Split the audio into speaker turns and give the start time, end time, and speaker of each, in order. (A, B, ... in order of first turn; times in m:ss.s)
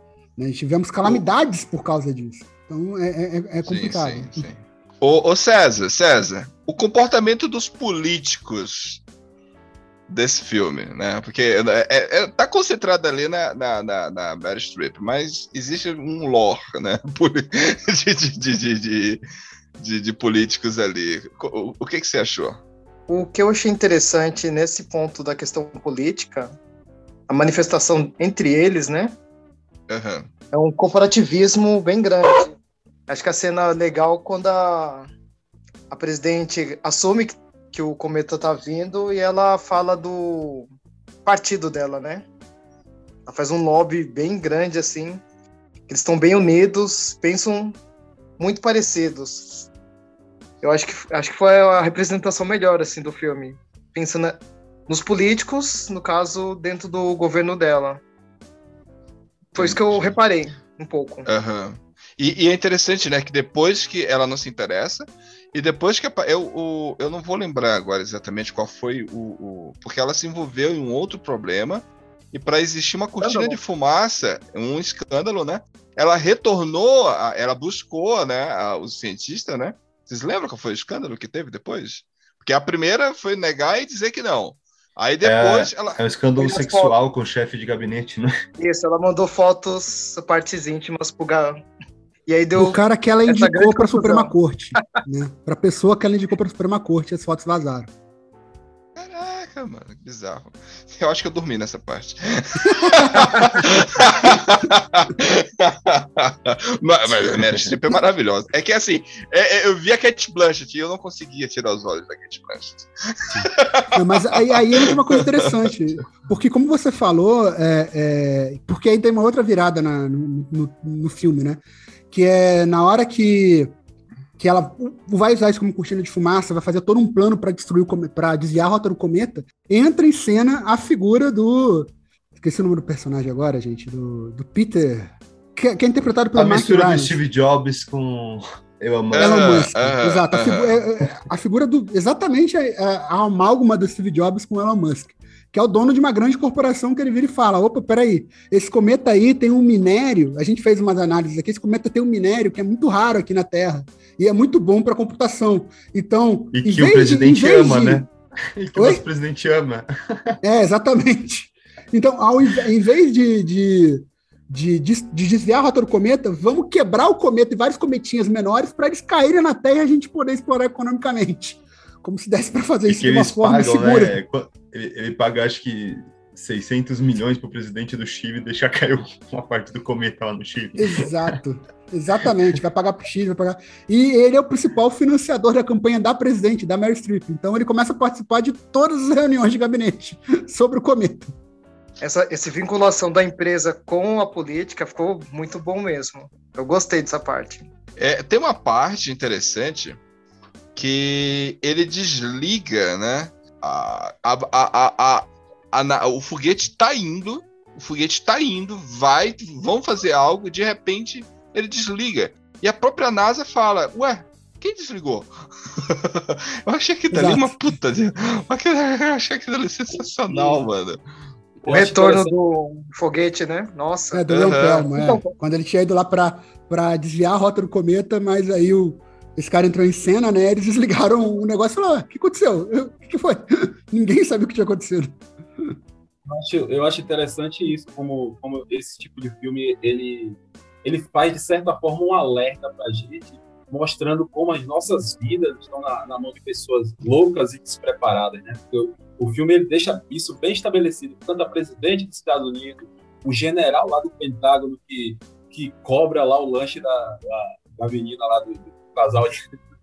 0:00.4-0:04.5 A
0:03.6-0:09.0 B
0:10.1-0:19.2 B
0:19.8-0:22.6 B
0:23.1-0:26.6 C
0:27.3-0:29.1 C
0:29.9-0:30.3 B
0:30.5-0:32.6 C
0:33.1-0:35.1 C
0:35.9-0:40.7 C
0:41.2-0:42.2 C
0:43.3-0:45.2 C
0:45.9-0:47.8 C
0:48.4-0:49.7 C
0:50.6-0:58.0 C
0:59.5-1:00.2 B
0:59.6-1:01.3 C
1:01.2-1:26.0 B
1:13.2-1:13.6 C
1:25.2-1:28.3 D
1:26.4-1:27.0 C
1:28.6-1:31.6 C
1:32.3-1:35.0 C
1:32.5-1:37.9 A
1:39.0-1:55.1 B
1:42.6-1:43.6 A
1:53.9-2:03.7 A
2:04.4-2:17.1 A
2:16.4-2:19.7 D
2:19.1-2:20.8 B
2:19.1-2:38.1 A
2:36.5-2:40.4 D
2:38.8-2:39.0 A
2:40.4-2:54.2 A
2:52.9-3:01.4 D
3:00.8-3:11.3 A
3:12.0-3:17.6 C
3:18.0-3:20.0 B
3:20.8-3:41.0 B
3:37.1-3:37.7 A
3:41.6-3:42.3 E
3:41.7-3:45.3 C
3:44.1-3:55.7 A
3:44.3-3:44.9 B
3:56.3-4:19.4 E